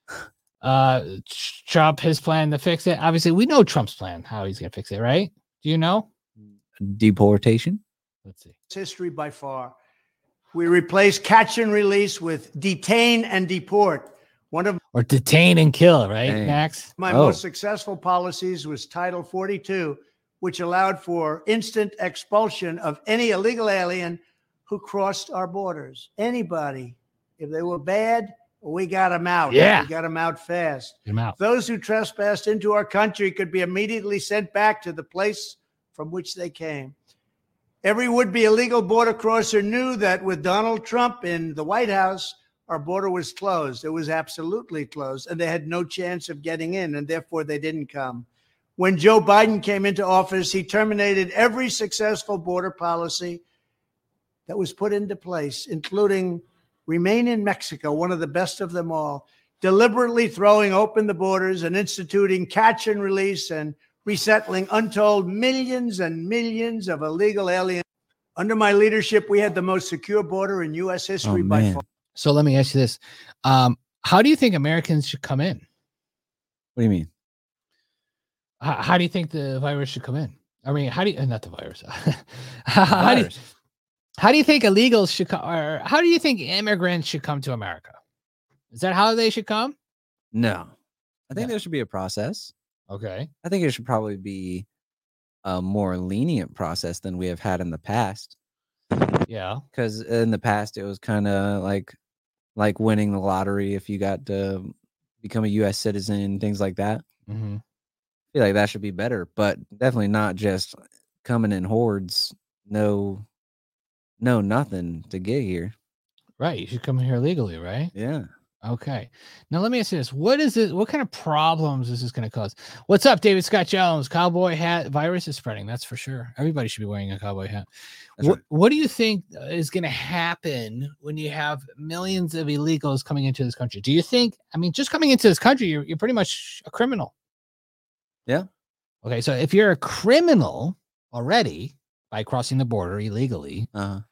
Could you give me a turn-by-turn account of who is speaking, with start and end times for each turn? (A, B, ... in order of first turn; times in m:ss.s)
0:00.6-0:06.1 A
0:06.4-0:07.8 B
0:08.2-0:08.5 A
0:08.7-0:09.7 C
0:10.5-0:14.8 C
0:14.9-0:16.9 A
0:16.2-0:17.4 B
0:17.0-0:36.9 C
0:29.5-0:29.9 A
0:31.1-0:31.4 A
0:37.8-0:53.4 C
0:54.5-1:07.8 C
1:08.4-1:11.8 C
1:11.2-1:11.8 B
1:12.2-1:15.6 A
1:16.8-1:17.1 B
1:18.6-1:23.4 A
1:22.9-1:23.4 B
1:24.2-1:28.0 A
1:28.7-1:29.7 A
1:30.3-1:30.7 B
1:31.3-1:32.5 B
1:32.9-1:33.3 A
1:33.4-1:34.6 B
1:35.4-1:38.3 B
1:39.3-1:39.6 A
1:39.7-1:42.0 B
1:42.6-1:47.0 B
1:47.3-1:47.6 A
1:48.3-1:53.2 B
1:54.2-1:55.7 B
1:56.4-1:57.9 A
1:57.9-1:58.3 B
1:58.6-2:07.6 A
2:08.2-2:17.1 A
2:19.0-2:23.7 A
2:23.7-2:24.0 B